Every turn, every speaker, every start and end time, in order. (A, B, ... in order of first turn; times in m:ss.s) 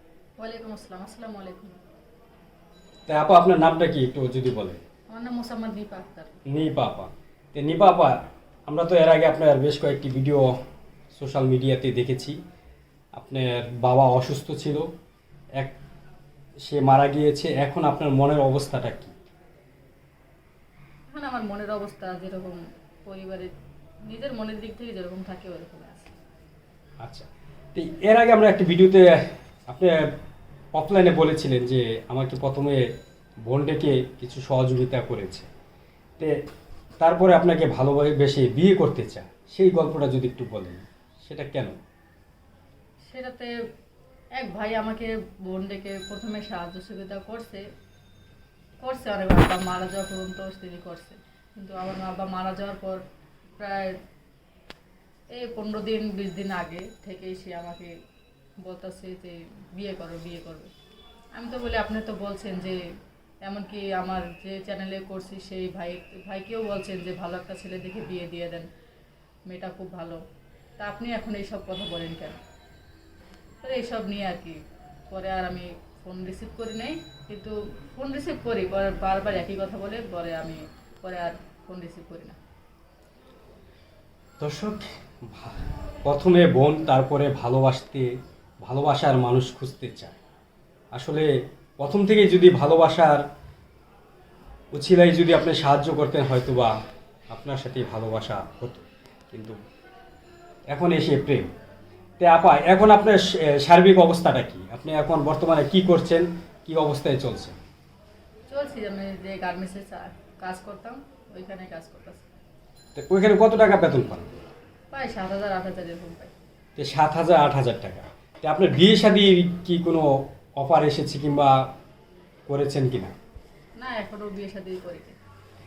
0:00.4-0:01.8 A
0:03.1-0:04.8 B
0:05.1-0:06.4 A
0:06.5-0:10.5 B
0:11.1-0:12.4 B
0:13.2-0:14.9 B
0:16.6-0:19.1 B
0:21.1-0:23.5 A
0:24.1-0:26.1 A
0:27.0-0:29.9 B
0:30.8-0:32.8 B
0:33.5-0:35.5 B
0:37.0-0:41.8 B
0:43.1-0:43.5 A
0:44.4-0:47.6 A
0:48.8-0:53.0 A
0:53.6-0:54.0 A
0:55.4-0:57.9 A
0:58.6-1:00.7 A
1:01.4-1:02.8 A
1:03.5-1:08.7 A
1:09.5-1:10.2 A
1:10.8-1:12.4 A
1:13.6-1:14.6 A
1:15.1-1:22.4 A
1:24.4-1:28.1 B
1:28.6-1:30.1 B
1:30.9-1:31.3 B
1:31.8-1:33.2 B
1:34.7-1:36.7 B
1:37.3-1:39.6 B
1:40.7-1:41.5 B
1:42.2-1:47.6 B
1:48.5-1:52.2 A
1:52.9-1:54.3 B
1:54.9-1:56.3 A
1:56.8-2:01.6 B
2:02.5-2:03.1 B
2:03.8-2:05.2 A